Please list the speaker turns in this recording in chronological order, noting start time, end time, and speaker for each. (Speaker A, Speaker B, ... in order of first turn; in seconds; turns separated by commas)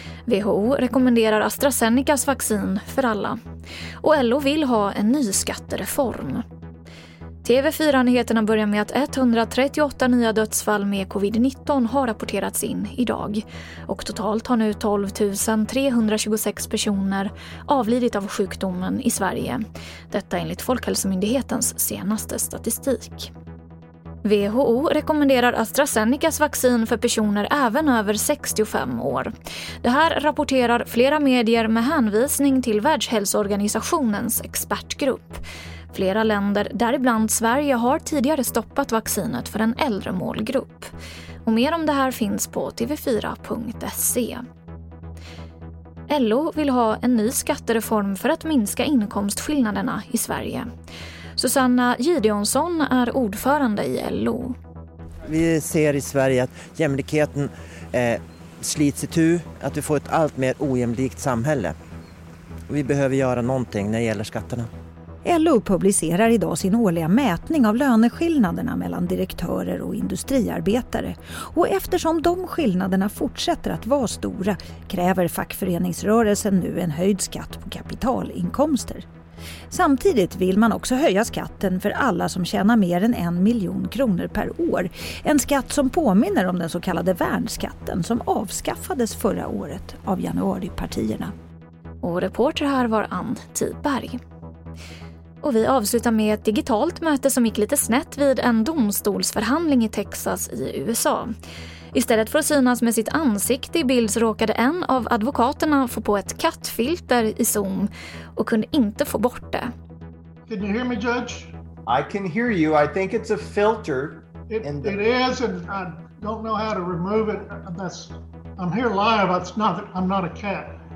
Speaker A: 0.3-3.4, Speaker A: 4.0-6.4, Speaker A: 7.4-23.3, Speaker A: 24.2-40.9, Speaker A: 41.5-44.4, Speaker A: 46.1-50.7, Speaker A: 51.4-54.5, Speaker B: 55.3-61.8, Speaker B: 62.7-64.7, Speaker C: 65.2-79.0, Speaker C: 79.7-91.3, Speaker A: 92.0-94.2, Speaker A: 95.4-101.3, Speaker A: 101.9-109.7, Speaker D: 110.5-111.5, Speaker E: 111.9-115.2, Speaker D: 114.5-120.8